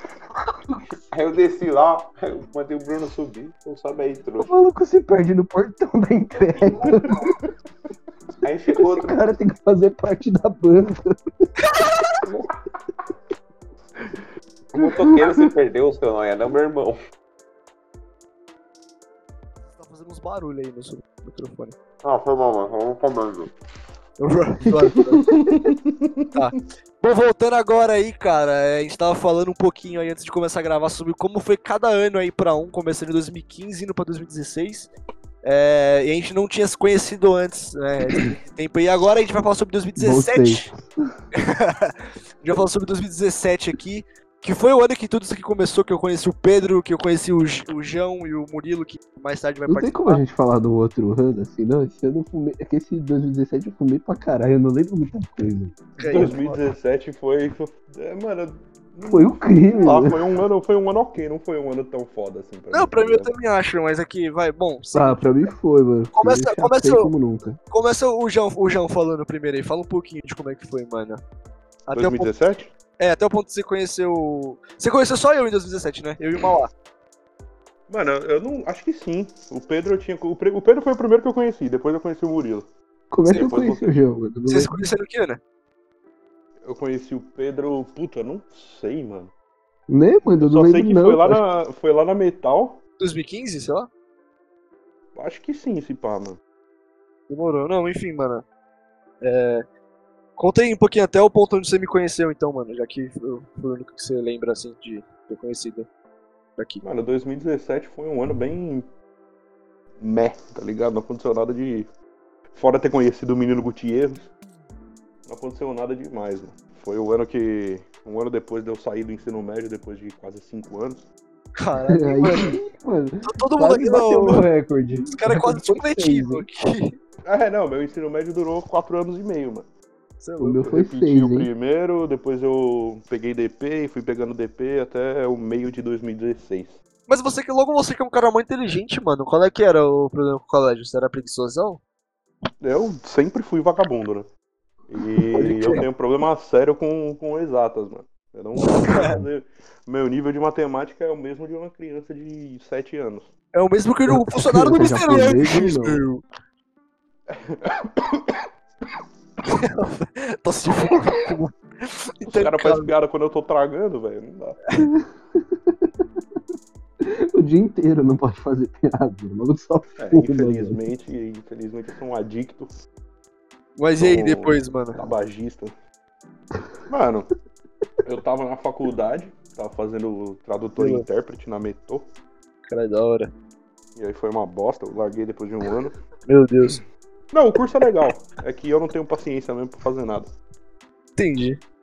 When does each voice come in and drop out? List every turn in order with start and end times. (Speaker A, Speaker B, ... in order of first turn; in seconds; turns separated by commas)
Speaker A: 1.1-4.5, Speaker B: 4.4-7.3, Speaker A: 8.4-9.2, Speaker B: 8.7-11.2, Speaker C: 11.7-12.1, Speaker A: 12.2-12.5, Speaker A: 14.7-17.0, Speaker C: 19.7-21.7, Speaker A: 22.0-23.5, Speaker C: 24.2-25.2, Speaker B: 25.3-25.8, Speaker D: 25.3-26.4, Speaker C: 26.3-34.9, Speaker C: 35.4-40.7, Speaker B: 40.0-40.9, Speaker C: 41.3-50.2, Speaker B: 49.7-56.4, Speaker C: 56.0-56.6, Speaker D: 56.0-63.3, Speaker B: 59.0-60.4, Speaker C: 62.7-65.2, Speaker B: 64.9-67.6, Speaker C: 66.1-67.1, Speaker C: 67.7-71.2, Speaker C: 71.9-72.3, Speaker D: 71.9-72.7, Speaker C: 73.0-76.7, Speaker D: 77.9-82.7, Speaker B: 83.1-84.9, Speaker D: 83.3-84.0, Speaker C: 84.5-85.4, Speaker D: 86.6-89.3, Speaker B: 89.9-91.4, Speaker D: 90.4-92.8, Speaker C: 93.0-93.9, Speaker D: 95.1-96.4, Speaker C: 97.3-98.4, Speaker C: 99.2-99.6, Speaker C: 100.4-105.9, Speaker C: 106.6-106.8, Speaker D: 106.8-108.9, Speaker D: 110.0-111.9, Speaker D: 112.5-114.3, Speaker D: 115.2-121.0, Speaker C: 121.6-122.6, Speaker B: 121.9-126.5, Speaker C: 123.2-124.5, Speaker C: 125.1-127.0, Speaker D: 127.2-129.7, Speaker C: 130.2-130.6, Speaker B: 130.4-131.5, Speaker D: 130.6-136.8, Speaker C: 137.1-141.8, Speaker D: 142.6-144.3, Speaker D: 144.9-153.3, Speaker C: 145.3-145.8, Speaker B: 145.3-145.8, Speaker C: 148.6-149.2, Speaker C: 153.5-156.2, Speaker B: 154.1-156.0, Speaker D: 157.3-158.4, Speaker C: 159.4-162.9, Speaker D: 162.2-164.6, Speaker B: 164.8-166.0, Speaker B: 167.0-170.8, Speaker D: 170.0-172.7, Speaker C: 173.8-175.0, Speaker D: 174.0-175.7, Speaker D: 176.9-177.3, Speaker D: 178.0-182.1, Speaker C: 180.8-181.1, Speaker C: 182.7-183.3, Speaker D: 183.9-186.0, Speaker C: 186.3-186.8, Speaker D: 187.3-190.3, Speaker C: 191.2-191.6